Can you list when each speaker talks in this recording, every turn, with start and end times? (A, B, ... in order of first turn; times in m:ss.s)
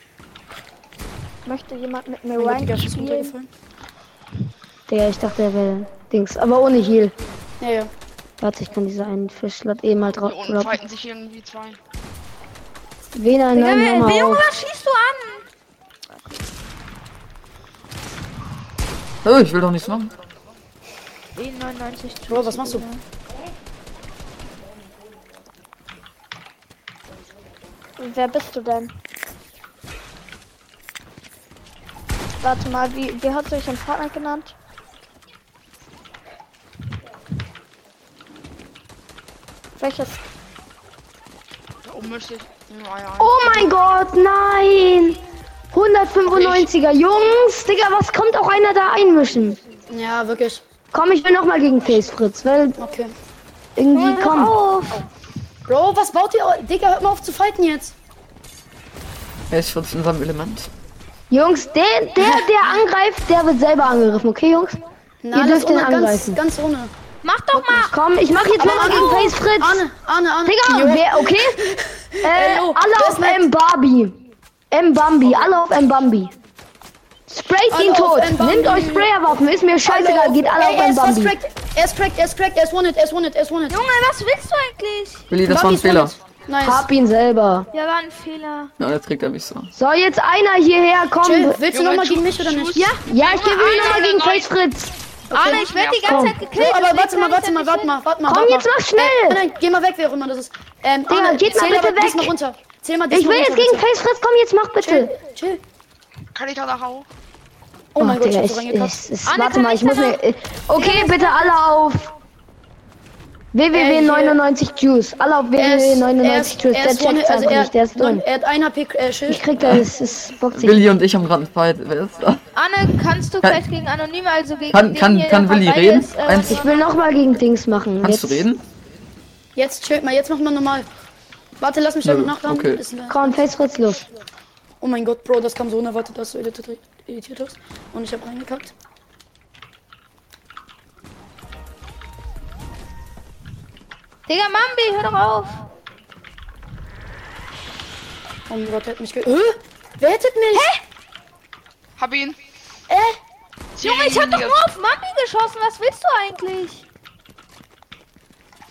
0:01.4-0:03.3 A
0:02.3-0:03.5 B
0:04.9-0:07.1 C
0:07.6-0:07.9 B
0:08.4-0:10.8 C
0:10.1-0:11.8 D
0:13.1-0:14.5 C
0:13.5-0:15.4 E
0:19.2-0:20.1 F
0:21.4-0:23.0 E
0:22.3-0:22.9 B
0:28.0-0:28.9 A
0:32.4-0:34.5 A
0:39.8-0:40.2 A
0:41.8-0:43.7 D
0:43.2-0:45.2 C
0:45.7-0:49.6 C
0:49.9-0:50.6 B
0:50.9-0:52.8 C
0:52.8-0:53.1 B
0:53.8-0:54.5 C
0:53.9-0:55.0 E
0:55.7-0:57.9 B
0:59.5-1:00.7 F
1:01.3-1:04.8 C
1:02.2-1:02.5 B
1:05.2-1:06.9 B
1:05.3-1:06.4 C
1:07.2-1:07.9 E
1:07.7-1:09.8 C
1:08.5-1:09.3 E
1:08.6-1:13.5 B
1:10.4-1:11.6 C
1:12.2-1:14.2 C
1:14.7-1:16.3 C
1:17.3-1:21.4 C
1:17.7-1:19.1 B
1:19.8-1:23.8 B
1:23.7-1:25.3 E
1:25.3-1:26.1 F
1:25.5-1:26.9 B
1:26.6-1:27.7 C
1:27.7-1:28.7 E
1:28.8-1:29.7 F
1:29.7-1:31.6 C
1:31.2-1:32.9 B
1:31.7-1:34.4 D
1:32.7-1:34.4 E
1:33.0-1:34.9 C
1:35.3-1:35.6 B
1:35.3-1:37.9 E
1:35.4-1:36.3 D
1:36.0-1:36.4 C
1:36.4-1:43.8 B
1:38.2-1:39.4 C
1:41.1-1:42.3 C
1:43.1-1:45.1 C
1:44.8-1:45.6 B
1:46.3-1:47.1 D
1:47.9-1:49.0 B
1:48.0-1:52.1 C
1:49.2-1:50.2 E
1:50.7-1:51.5 E
1:53.5-1:58.2 C
1:53.7-1:54.4 B
1:55.6-1:59.4 B
1:59.3-2:00.9 C
2:00.6-2:02.4 F
2:02.5-2:06.6 E
2:04.7-2:06.6 F
2:06.4-2:08.4 C
2:08.0-2:08.6 F
2:09.6-2:10.9 B
2:11.6-2:13.3 B
2:12.0-2:12.8 F
2:13.1-2:14.0 C
2:14.8-2:18.7 B
2:24.3-2:25.6 E
2:28.5-2:30.7 B
2:30.5-2:30.8 E
2:32.0-2:32.4 D
2:32.9-2:33.2 B
2:33.8-2:34.6 D
2:33.8-2:36.8 E